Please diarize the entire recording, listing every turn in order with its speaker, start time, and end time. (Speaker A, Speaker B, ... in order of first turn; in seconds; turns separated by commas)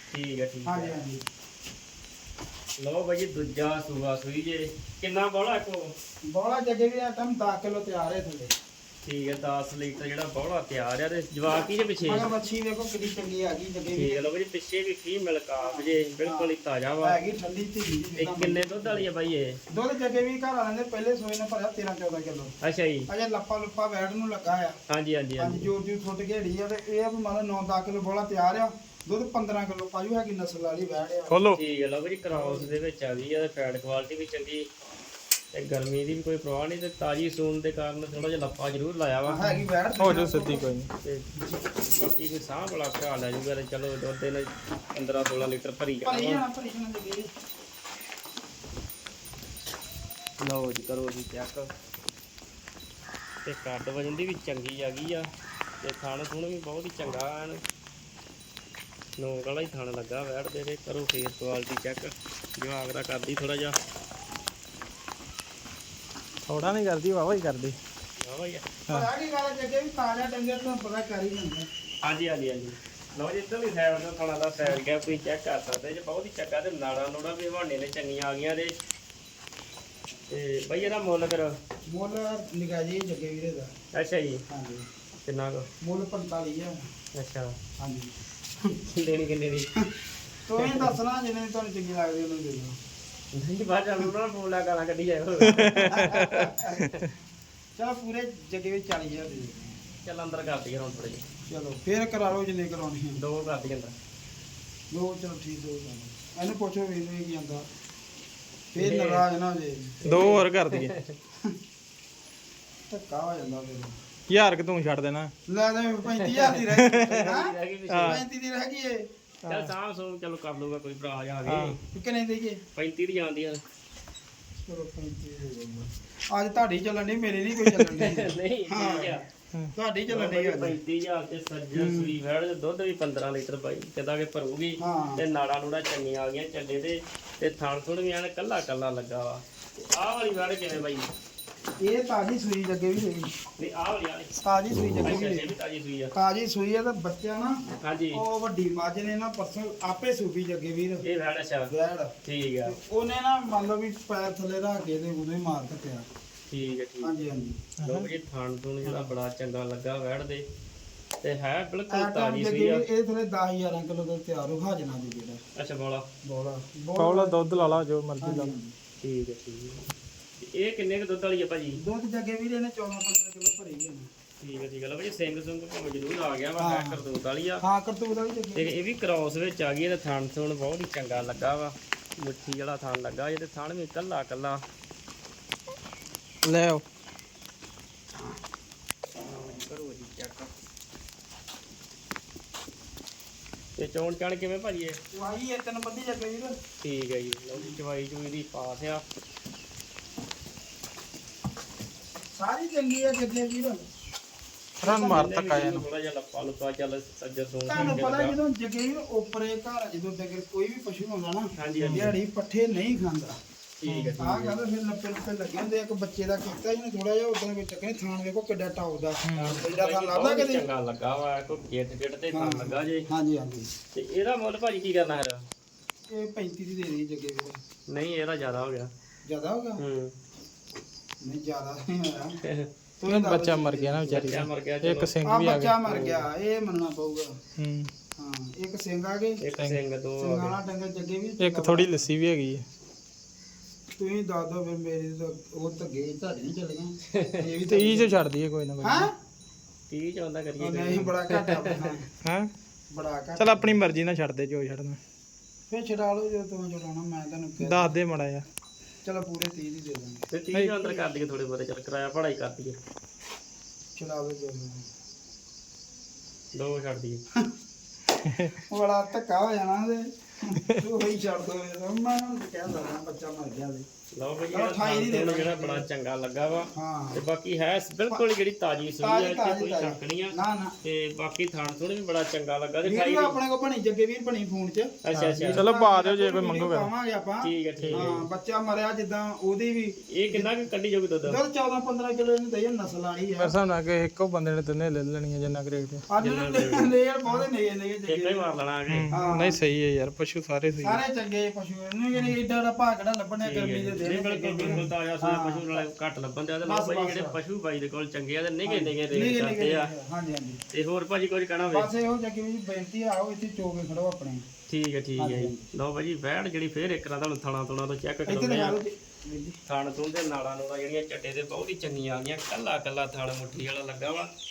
Speaker A: 0.1-0.9, Speaker B: 0.7-1.2, Speaker A: 2.8-5.9, Speaker B: 6.3-8.5, Speaker A: 9.1-12.3, Speaker B: 12.1-14.2, Speaker A: 14.0-17.2, Speaker B: 15.6-16.5, Speaker B: 17.0-19.1, Speaker A: 18.2-19.6, Speaker B: 19.7-22.5, Speaker A: 22.6-23.1, Speaker B: 23.1-24.8, Speaker A: 24.9-25.7, Speaker B: 25.4-31.5, Speaker C: 31.3-31.6, Speaker A: 31.5-34.7, Speaker B: 32.3-32.8, Speaker A: 35.5-39.6, Speaker B: 39.3-40.7, Speaker C: 40.0-40.9, Speaker A: 41.0-41.3, Speaker A: 42.0-46.4, Speaker B: 46.0-47.3, Speaker A: 50.4-51.7, Speaker A: 53.5-55.3, Speaker A: 55.8-57.6, Speaker A: 59.2-63.8, Speaker C: 66.5-67.8, Speaker A: 68.2-68.7, Speaker B: 68.9-71.7, Speaker A: 72.0-78.7, Speaker A: 80.3-81.5, Speaker B: 81.9-83.7, Speaker A: 83.9-84.4, Speaker B: 84.5-84.9, Speaker A: 85.2-85.7, Speaker B: 85.8-86.8, Speaker A: 87.2-87.5, Speaker B: 87.8-88.7, Speaker A: 88.9-89.7, Speaker B: 90.5-92.8, Speaker A: 90.6-90.9, Speaker A: 93.3-97.1, Speaker C: 95.5-96.5, Speaker B: 95.7-96.9, Speaker B: 97.8-99.8, Speaker A: 100.0-101.2, Speaker B: 101.5-103.2, Speaker A: 103.2-103.9, Speaker B: 104.9-107.7, Speaker B: 108.7-109.9, Speaker A: 108.8-109.2, Speaker A: 110.0-111.1, Speaker C: 110.0-110.9, Speaker B: 112.9-114.0, Speaker C: 114.3-115.3, Speaker B: 115.5-119.0, Speaker A: 116.1-118.2, Speaker C: 116.7-117.3, Speaker C: 117.9-118.2, Speaker C: 119.5-119.7, Speaker A: 119.5-121.8, Speaker C: 121.5-121.8, Speaker B: 121.9-122.6, Speaker A: 122.8-123.6, Speaker B: 124.7-129.2, Speaker C: 127.6-128.0, Speaker A: 128.0-129.2, Speaker B: 129.8-130.8, Speaker A: 130.1-141.1, Speaker B: 131.7-132.2, Speaker B: 134.8-135.2, Speaker B: 141.8-143.3, Speaker A: 143.6-144.3, Speaker B: 144.4-145.5, Speaker A: 145.0-146.1, Speaker B: 146.1-147.6, Speaker A: 147.8-148.2, Speaker B: 148.2-151.0, Speaker A: 151.0-151.7, Speaker B: 151.7-152.1, Speaker A: 152.2-152.8, Speaker B: 152.7-156.1, Speaker A: 156.5-157.2, Speaker B: 157.0-157.6, Speaker C: 157.8-158.1, Speaker A: 157.8-160.4, Speaker A: 161.2-162.9, Speaker B: 161.9-165.4, Speaker A: 165.6-166.1, Speaker B: 166.2-168.7, Speaker C: 167.0-168.5, Speaker A: 169.0-169.9, Speaker A: 170.4-171.8, Speaker B: 171.8-174.1, Speaker A: 174.4-177.6, Speaker B: 176.6-177.0, Speaker B: 177.6-178.7, Speaker A: 178.6-184.6, Speaker C: 186.4-186.8, Speaker A: 189.2-190.5, Speaker A: 193.8-195.0, Speaker B: 195.1-196.6, Speaker A: 196.8-199.0, Speaker B: 202.4-203.8, Speaker C: 204.8-205.8, Speaker A: 204.9-208.3, Speaker B: 207.7-213.4, Speaker A: 211.6-212.1, Speaker C: 211.8-212.2, Speaker A: 213.8-214.6, Speaker C: 213.9-214.2, Speaker B: 214.2-220.6, Speaker C: 219.2-219.6, Speaker A: 219.4-223.1, Speaker B: 222.3-223.7, Speaker A: 223.9-225.4, Speaker B: 226.1-227.6, Speaker A: 227.9-228.9, Speaker B: 229.3-229.8, Speaker A: 229.8-230.1, Speaker B: 231.2-232.4, Speaker B: 233.0-234.4, Speaker C: 233.1-235.8, Speaker A: 234.1-235.2, Speaker B: 235.2-237.3, Speaker A: 235.8-236.3, Speaker C: 237.6-237.9, Speaker B: 238.2-239.4, Speaker A: 239.4-240.6, Speaker C: 239.5-239.8, Speaker B: 240.2-242.1, Speaker C: 241.4-242.7, Speaker B: 244.0-248.2, Speaker A: 247.1-247.5, Speaker C: 247.7-249.1, Speaker B: 248.8-249.1, Speaker A: 249.9-251.9, Speaker B: 250.6-252.1, Speaker C: 252.2-252.5, Speaker B: 252.9-253.8, Speaker C: 253.4-255.0, Speaker B: 255.7-257.9, Speaker C: 257.6-258.4, Speaker B: 259.0-260.3, Speaker A: 260.3-262.8, Speaker B: 264.0-264.8, Speaker A: 266.5-267.2, Speaker C: 268.2-268.5, Speaker B: 268.7-273.9, Speaker A: 274.1-283.4, Speaker B: 274.5-275.9, Speaker B: 276.8-277.2, Speaker B: 279.0-280.7, Speaker B: 282.8-290.5, Speaker A: 285.0-285.7, Speaker C: 285.1-286.9, Speaker A: 287.4-288.2, Speaker C: 287.8-288.1, Speaker A: 290.1-291.4, Speaker B: 291.3-293.6, Speaker C: 293.4-296.0, Speaker B: 296.1-298.5, Speaker A: 296.2-296.9, Speaker A: 298.1-299.1, Speaker C: 298.9-301.0, Speaker B: 299.1-299.6, Speaker B: 300.8-305.9, Speaker A: 303.4-309.9, Speaker B: 306.6-307.4, Speaker B: 308.7-310.6, Speaker A: 310.7-311.9, Speaker B: 311.7-314.4, Speaker A: 314.7-318.8, Speaker B: 315.2-315.6, Speaker B: 318.3-319.6, Speaker A: 319.7-324.3